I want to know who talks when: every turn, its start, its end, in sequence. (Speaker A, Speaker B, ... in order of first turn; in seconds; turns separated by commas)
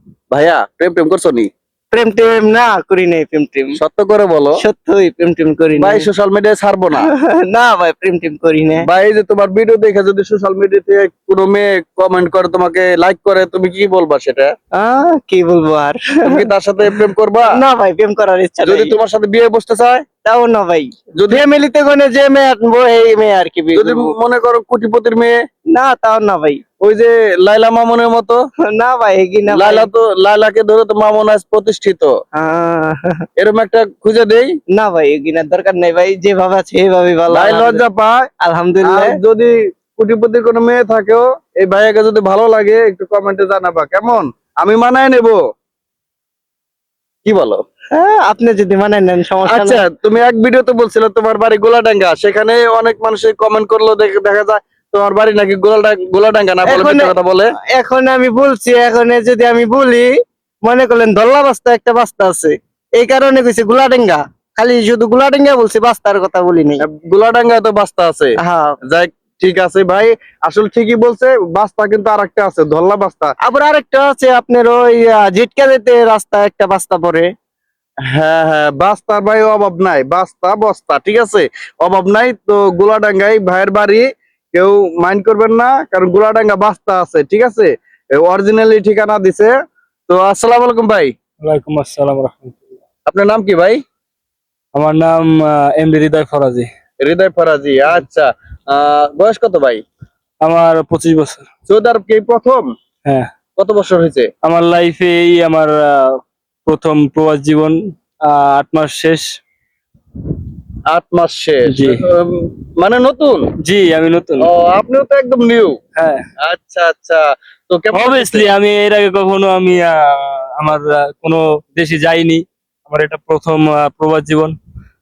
Speaker A: 0.3-1.5, Speaker B: 1.9-3.8, Speaker A: 3.8-4.6, Speaker B: 4.6-6.0, Speaker A: 5.8-7.1, Speaker B: 7.0-8.9, Speaker A: 8.8-14.5, Speaker B: 14.7-16.9, Speaker A: 16.2-17.5, Speaker B: 17.5-19.0, Speaker A: 18.6-20.0, Speaker B: 20.2-24.1, Speaker A: 21.2-21.4, Speaker A: 23.7-25.4, Speaker B: 25.7-26.6, Speaker A: 26.8-28.4, Speaker B: 28.6-29.9, Speaker A: 29.5-32.1, Speaker B: 32.3-33.2, Speaker A: 33.4-34.5, Speaker B: 34.8-37.8, Speaker A: 37.3-38.3, Speaker B: 38.4-39.1, Speaker A: 38.8-45.4, Speaker A: 47.2-47.6, Speaker B: 47.9-49.8, Speaker A: 49.5-57.5, Speaker B: 56.6-57.1, Speaker B: 57.7-60.1, Speaker B: 60.6-66.8, Speaker A: 66.8-68.3, Speaker B: 68.4-68.8, Speaker A: 68.8-73.3, Speaker B: 73.4-77.3, Speaker A: 78.1-89.5, Speaker A: 90.1-91.1, Speaker C: 91.4-92.8, Speaker A: 93.1-93.8, Speaker C: 94.7-96.7, Speaker A: 97.0-99.8, Speaker C: 100.4-101.4, Speaker A: 101.7-102.7, Speaker A: 103.6-104.3, Speaker C: 104.4-109.3, Speaker A: 110.9-113.5, Speaker C: 111.7-112.0, Speaker C: 113.6-114.5, Speaker A: 114.4-115.8, Speaker C: 116.0-116.2, Speaker A: 116.4-118.5, Speaker C: 117.9-124.5